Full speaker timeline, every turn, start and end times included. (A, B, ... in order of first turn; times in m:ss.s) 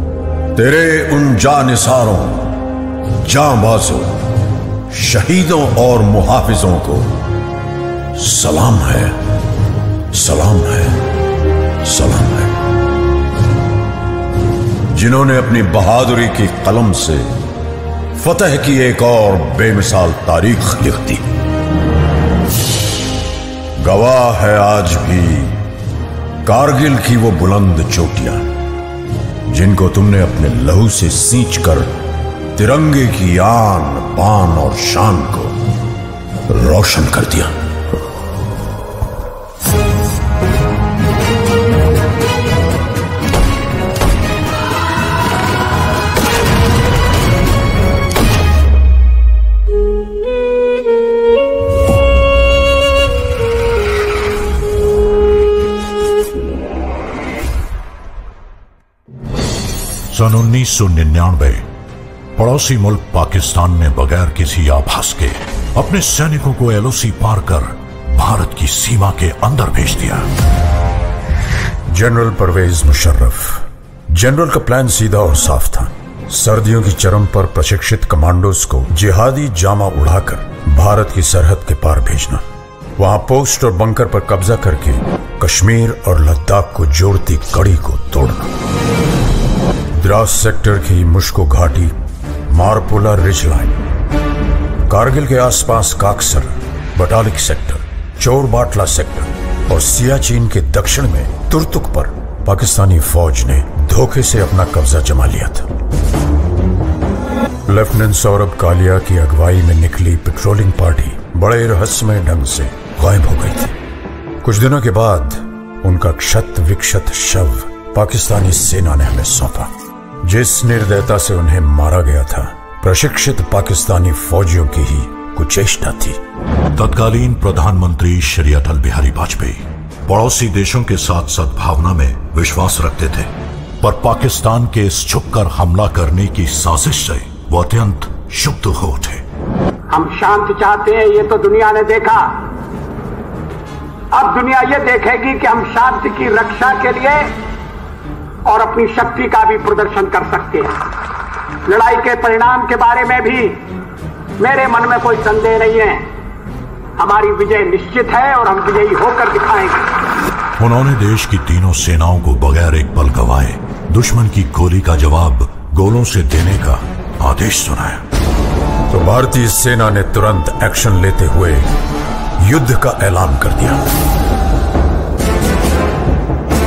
0:00.5-0:02.6 A
0:03.2-0:04.2 A
0:04.9-0:07.1 A
0:08.1-0:09.2 A
0:10.1-0:11.0 A
0:11.8-0:12.5 A
0:14.9-0:17.2 A
0:18.2-0:21.2 A
0:23.8-0:25.6 A
0:26.4-0:28.5 A
0:29.5-0:31.9 A
0:32.6-0:35.5 A
0:36.5-0:37.5 A
1:00.1-1:01.6 B
1:02.4-1:10.3 B
1:11.9-1:22.4 A
1:23.0-1:28.5 A
1:30.0-1:31.9 A
1:32.5-1:33.8 A
1:34.9-1:45.7 A
1:47.7-1:53.7 A
1:54.4-1:59.7 A
2:00.2-2:06.2 A
2:06.7-2:13.3 B
2:13.8-2:19.2 B
2:19.9-2:22.3 C
2:24.1-2:27.3 C
2:28.5-2:30.7 C
2:31.7-2:33.6 C
2:34.4-2:36.0 C
2:37.0-2:39.8 C
2:40.6-2:48.0 B
2:48.9-2:51.6 A
2:52.4-2:53.8 A